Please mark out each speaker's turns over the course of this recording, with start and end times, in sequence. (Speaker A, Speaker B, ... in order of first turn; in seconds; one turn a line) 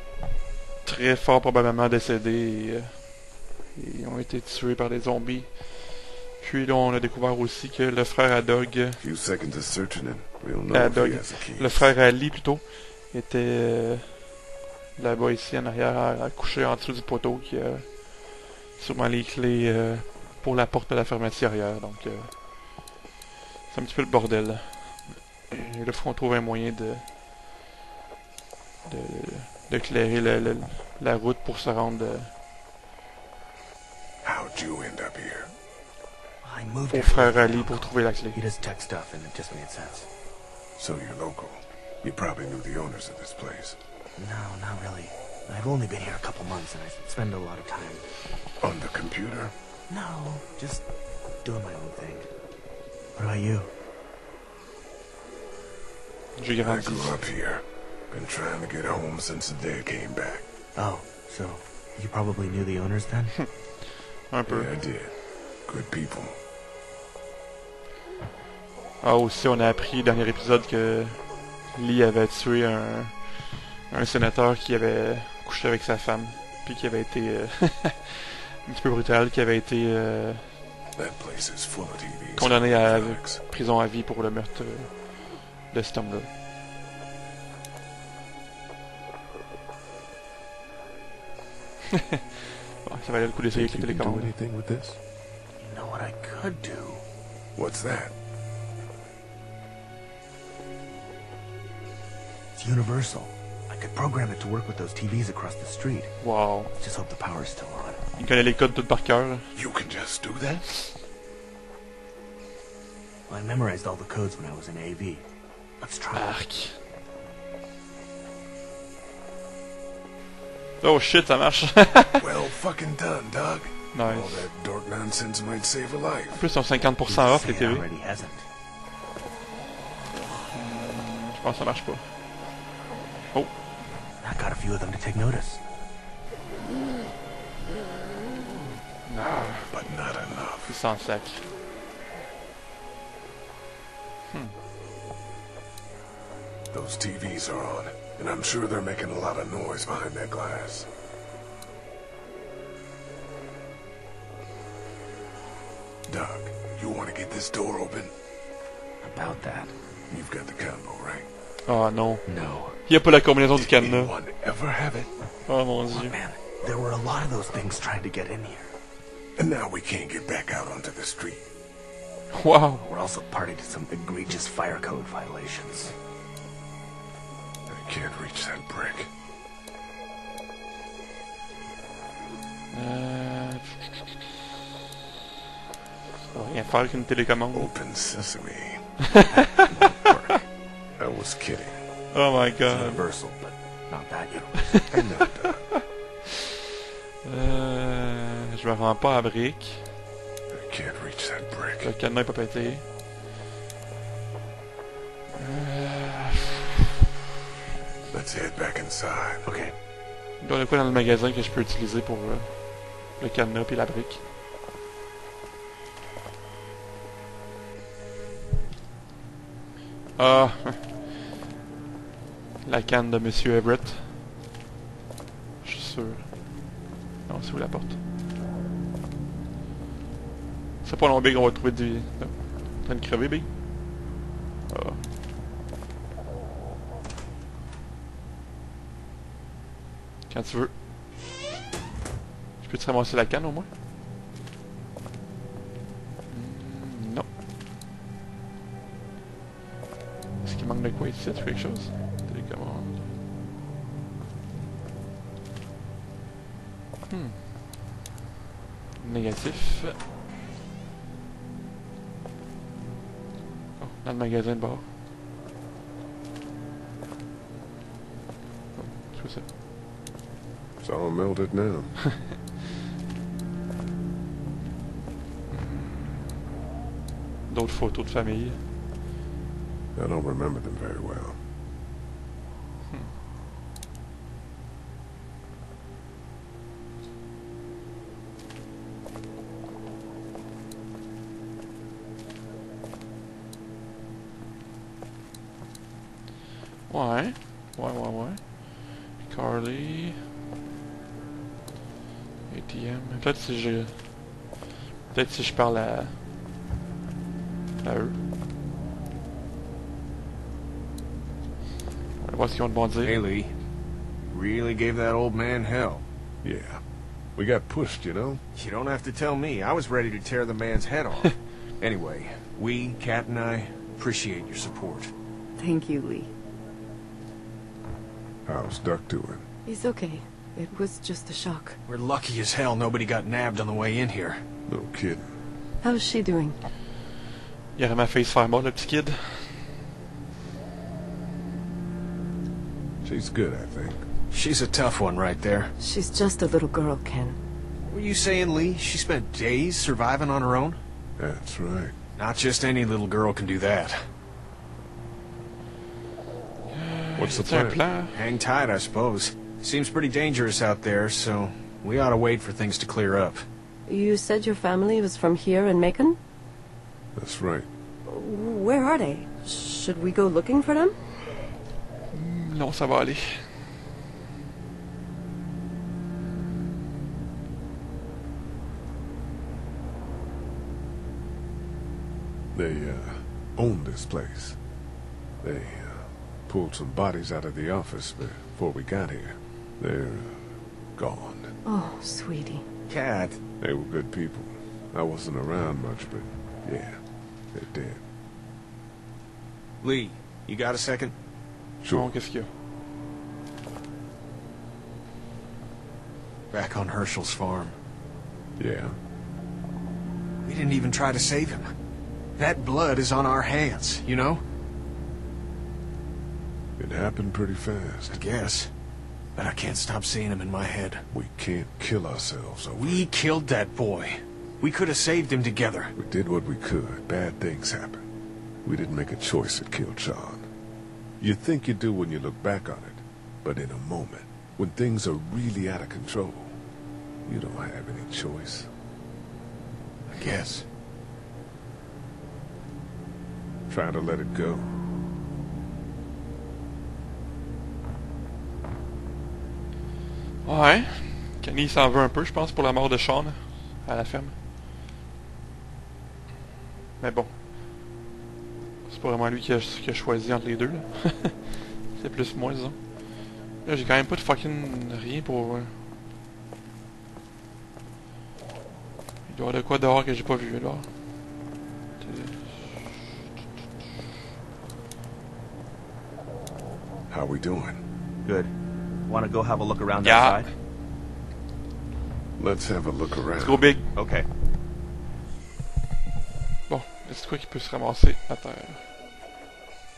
Speaker A: 0.8-9.0
Speaker B: 9.0-11.9
Speaker A: 10.7-14.4
Speaker A: 14.9-22.9
Speaker A: 23.7-27.1
Speaker A: 28.9-32.3
Speaker B: 34.2-35.5
Speaker C: 36.4-40.1
Speaker A: 36.9-38.4
Speaker B: 40.8-43.8
Speaker C: 44.2-48.1
Speaker B: 48.6-49.5
Speaker C: 49.9-50.9
Speaker C: 51.4-52.3
Speaker C: 53.1-53.7
Speaker A: 56.4-57.3
Speaker B: 56.6-60.5
Speaker C: 60.8-63.4
Speaker A: 64.1-64.7
Speaker B: 64.5-66.4
Speaker A: 69.0-80.6
Speaker B: 80.9-83.4
Speaker A: 82.3-86.3
Speaker A: 92.8-94.3
Speaker B: 93.5-95.0
Speaker C: 95.6-97.0
Speaker B: 97.6-98.2
Speaker C: 102.5-108.0
Speaker A: 106.2-106.7
Speaker A: 108.2-109.5
Speaker B: 109.5-110.9
Speaker C: 113.3-115.3
Speaker C: 115.8-116.4
Speaker A: 116.1-116.8
Speaker A: 120.8-122.3
Speaker B: 122.2-126.5
Speaker A: 123.9-124.5
Speaker A: 126.3-127.9
Speaker C: 127.1-128.5
Speaker A: 130.5-132.2
Speaker C: 134.2-135.6
Speaker A: 138.9-141.5
Speaker B: 139.7-140.8
Speaker A: 144.3-144.6
Speaker B: 146.7-150.9
Speaker B: 156.1-158.1
Speaker C: 159.0-159.8
Speaker B: 160.1-161.3
Speaker A: 161.7-164.1
Speaker C: 162.3-162.8
Speaker B: 163.5-165.1
Speaker A: 165.5-166.2
Speaker C: 165.9-168.7
Speaker B: 169.4-171.5
Speaker A: 172.3-172.9
Speaker C: 172.8-176.0
Speaker B: 177.7-179.1
Speaker A: 182.7-183.9
Speaker A: 186.3-187.7
Speaker B: 187.5-188.9
Speaker C: 189.2-190.4
Speaker B: 191.0-191.8
Speaker A: 192.1-193.1
Speaker C: 192.6-194.9
Speaker B: 194.9-195.7
Speaker A: 197.2-199.9
Speaker B: 200.5-201.9
Speaker A: 201.8-202.8
Speaker A: 205.3-206.6
Speaker B: 208.1-209.5
Speaker C: 209.4-209.8
Speaker A: 210.4-214.2
Speaker A: 220.2-221.0
Speaker A: 222.6-224.2
Speaker A: 225.6-228.0
Speaker A: 230.8-233.5
Speaker A: 234.7-235.1
Speaker A: 240.3-240.8
Speaker A: 242.6-243.7
Speaker A: 246.3-247.3
Speaker A: 250.4-253.1
Speaker A: 257.1-257.4
Speaker A: 259.0-260.0
Speaker A: 263.8-264.9
Speaker A: 268.8-269.5
Speaker B: 270.8-272.1
Speaker A: 275.5-276.4
Speaker A: 277.5-278.6
Speaker B: 279.9-281.4
Speaker A: 282.9-283.1
Speaker A: 296.9-300.2
Speaker A: 302.5-304.5
Speaker A: 305.1-306.2
Speaker A: 307.8-308.2
Speaker A: 312.2-313.2
Speaker D: 313.0-313.5
Speaker D: 314.3-316.0
Speaker B: 316.4-318.4
Speaker D: 318.6-325.1
Speaker E: 325.6-326.3
Speaker B: 328.4-329.5
Speaker E: 329.7-331.7
Speaker D: 331.9-334.4
Speaker B: 334.7-335.4
Speaker E: 335.8-336.6
Speaker A: 337.8-339.7
Speaker B: 343.0-344.1
Speaker D: 344.3-345.7
Speaker E: 345.8-347.4
Speaker D: 347.9-350.8
Speaker B: 351.2-352.0
Speaker D: 352.2-354.0
Speaker A: 356.7-358.3
Speaker B: 357.2-357.8
Speaker D: 358.1-363.4
Speaker E: 363.9-366.2
Speaker B: 367.1-367.7
Speaker E: 368.1-371.0
Speaker A: 372.1-373.6
Speaker B: 382.5-384.6
Speaker B: 385.4-391.5
Speaker E: 391.6-392.6
Speaker D: 392.9-393.4
Speaker B: 393.6-398.0
Speaker D: 399.8-401.1
Speaker B: 401.8-402.2
Speaker A: 401.9-402.5
Speaker D: 406.5-407.8
Speaker B: 408.6-409.0
Speaker D: 410.4-411.7
Speaker D: 412.4-414.4
Speaker B: 416.8-418.2
Speaker D: 418.1-418.7
Speaker D: 419.4-421.1
Speaker B: 421.1-423.1
Speaker D: 422.8-425.9
Speaker B: 426.0-428.0
Speaker B: 428.6-430.5
Speaker B: 431.2-436.6
Speaker B: 437.3-438.7
Speaker D: 440.1-440.7
Speaker B: 443.7-444.8
Speaker A: 450.4-454.4
Speaker A: 457.0-457.4
Speaker A: 458.9-465.8
Speaker A: 469.3-471.3
Speaker A: 472.0-472.9
Speaker B: 477.1-477.8
Speaker F: 478.2-478.5
Speaker F: 479.1-480.5
Speaker A: 480.0-480.5
Speaker B: 482.4-483.8
Speaker A: 483.4-483.9
Speaker F: 483.9-484.3
Speaker A: 486.7-488.9